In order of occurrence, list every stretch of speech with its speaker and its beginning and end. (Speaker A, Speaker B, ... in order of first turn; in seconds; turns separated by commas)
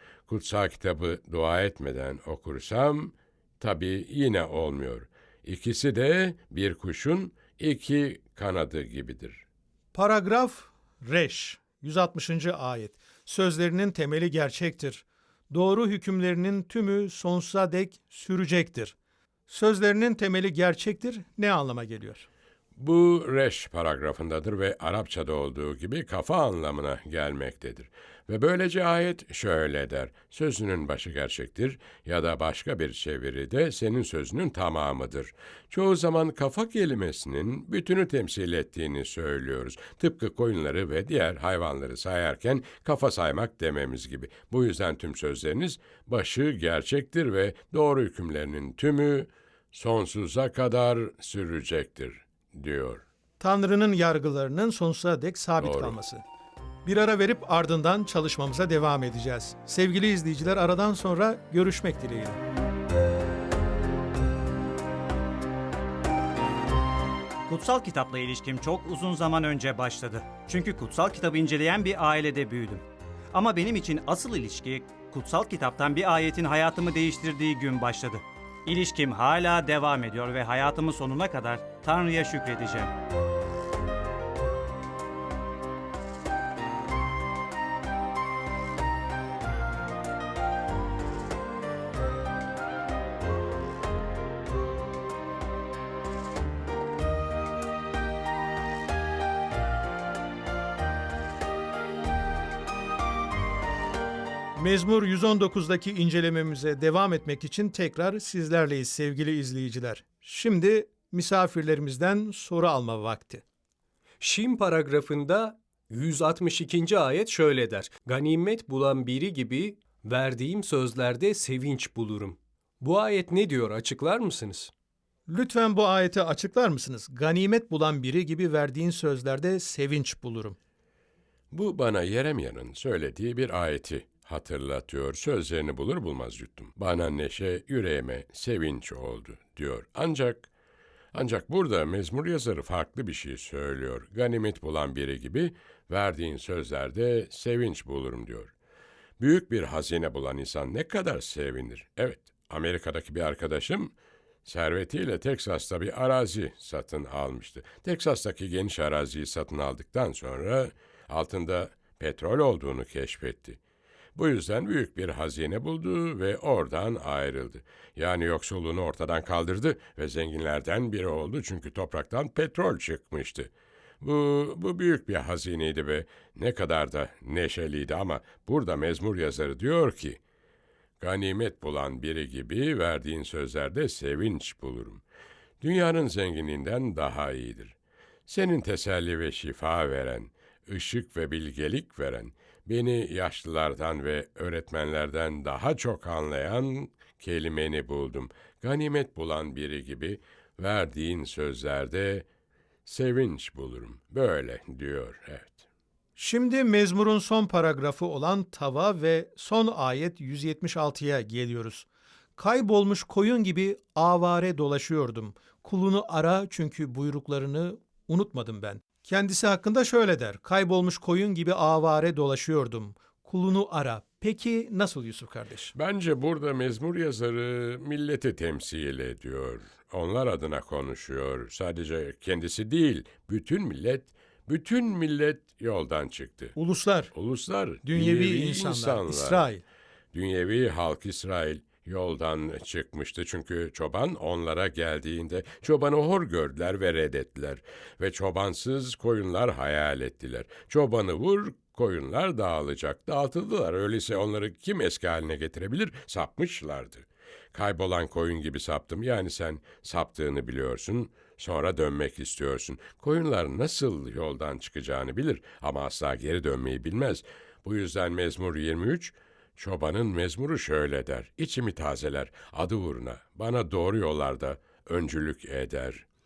Speaker A: 0.3-9.4, Speaker B: 9.9-18.9, Speaker B: 19.5-22.3, Speaker A: 22.8-53.0, Speaker B: 53.4-56.2, Speaker A: 55.6-56.0, Speaker B: 56.9-62.4, Speaker C: 67.5-82.9, Speaker B: 104.6-113.4, Speaker D: 114.2-124.7, Speaker B: 125.3-130.6, Speaker A: 131.5-140.5, Speaker A: 141.1-148.5, Speaker A: 149.2-153.9, Speaker A: 154.4-163.6, Speaker A: 164.2-180.2, Speaker A: 181.0-185.0, Speaker A: 185.6-187.8, Speaker A: 188.3-202.3, Speaker A: 202.9-205.7, Speaker B: 206.2-211.9, Speaker B: 212.4-225.7, Speaker A: 225.7-236.6, Speaker B: 236.6-237.1, Speaker A: 237.1-239.4, Speaker B: 237.8-239.6, Speaker A: 240.1-276.1